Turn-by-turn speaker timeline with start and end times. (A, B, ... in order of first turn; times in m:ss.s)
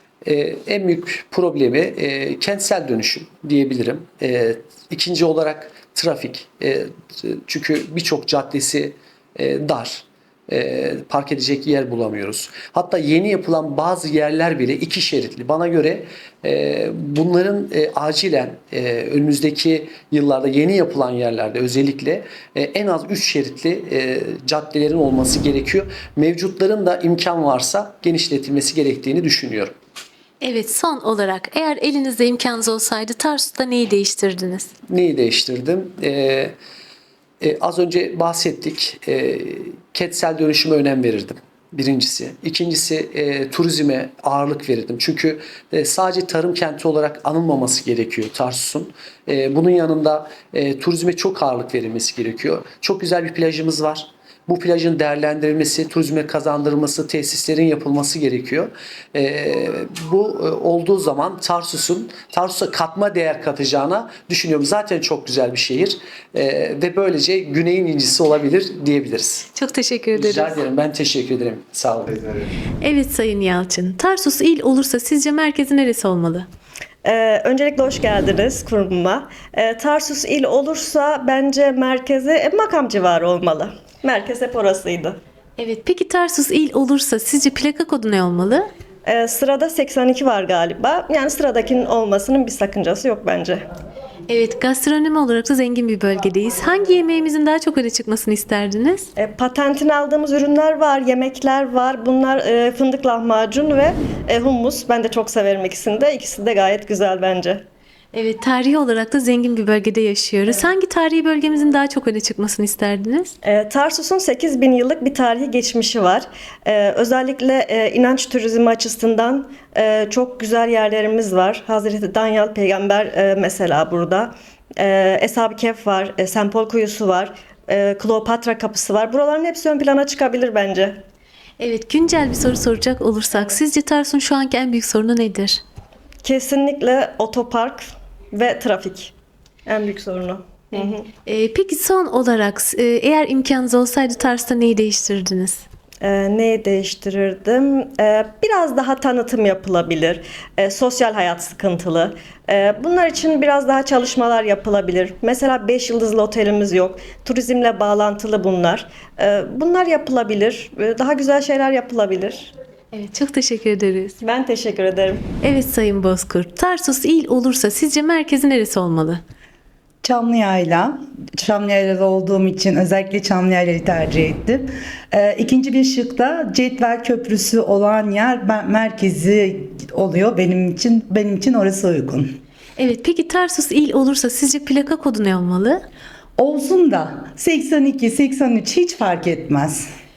0:00.2-0:29.7 A
0:30.4-0:34.7 B
0:34.9-0:36.5 A
0:37.4-1:09.5 A
1:09.5-1:10.6 B
1:10.1-1:12.4 A
1:12.8-1:16.5 B
1:17.0-1:25.2 C
1:25.6-1:28.7 B
1:29.0-1:33.6 C
1:34.3-1:39.1 B
1:39.2-1:47.6 C
1:48.1-1:53.3 B
1:53.4-2:11.0 C
2:11.6-2:15.6 B
2:16.2-2:19.1 C
2:19.6-2:21.0 C
2:21.2-2:25.6 B
2:26.0-2:42.5 C
2:42.9-2:44.2 B
2:44.2-2:45.2 C
2:45.4-2:49.2 B
2:50.0-3:02.3 D
3:02.8-3:05.8 B
3:06.4-3:09.8 D